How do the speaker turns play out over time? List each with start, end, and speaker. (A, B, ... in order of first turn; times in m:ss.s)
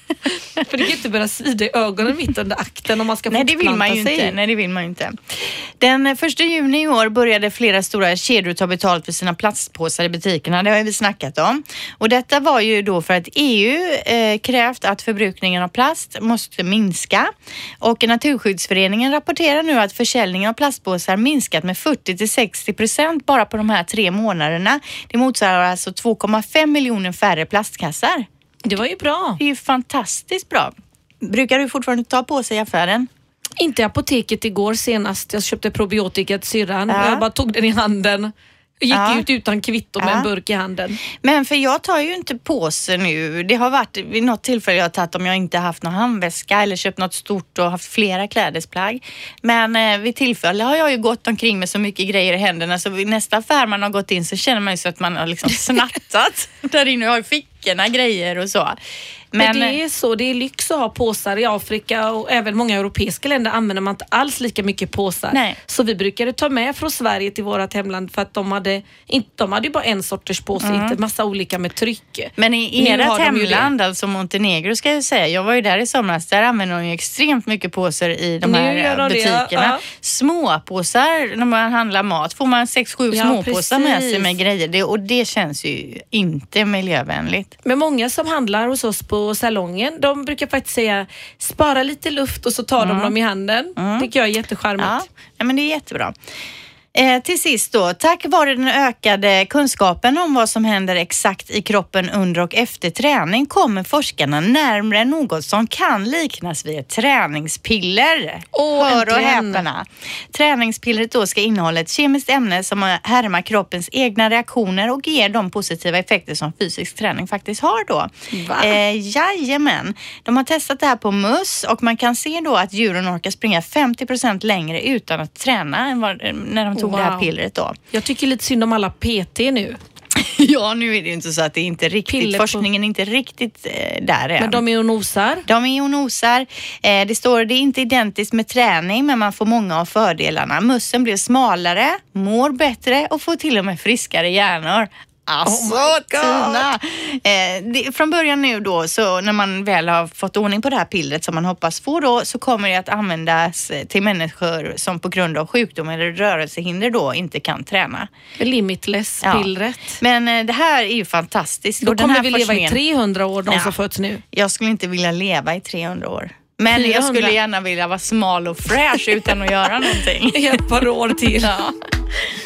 0:00.3-0:04.4 A
0:03.3-0:28.2 B
0:28.6-0:29.4 A
0:29.4-0:33.1 B
0:33.6-0:41.0 A
0:36.9-0:37.2 B
0:38.9-0:39.2 B
0:40.0-0:40.3 B
0:41.2-0:58.8 B
0:59.3-0:59.8 B
0:59.4-1:13.7 A
1:05.3-1:05.6 B
1:10.6-1:11.0 B
1:12.4-1:27.5 B
1:18.4-1:19.8 A
1:23.1-1:24.3 A
1:27.6-1:35.0 A
1:32.8-1:33.1 B
1:33.8-1:34.1 B
1:34.8-1:36.1 B
1:36.9-2:07.8 B
1:48.5-1:49.6 A
1:58.3-1:58.8 A
2:06.8-2:07.3 A
2:07.9-2:09.8 A
2:10.2-2:14.6 B
2:12.1-2:12.6 A
2:14.4-2:15.4 A
2:15.5-2:38.1 B
2:25.4-2:26.7 A
2:38.4-2:40.0 A
2:39.2-2:39.5 B
2:40.0-2:42.8 B
2:41.8-2:44.2 A
2:43.5-2:43.7 B
2:44.3-2:50.6 B
2:46.7-2:47.3 A
2:50.3-2:51.6 A
2:51.3-2:51.7 B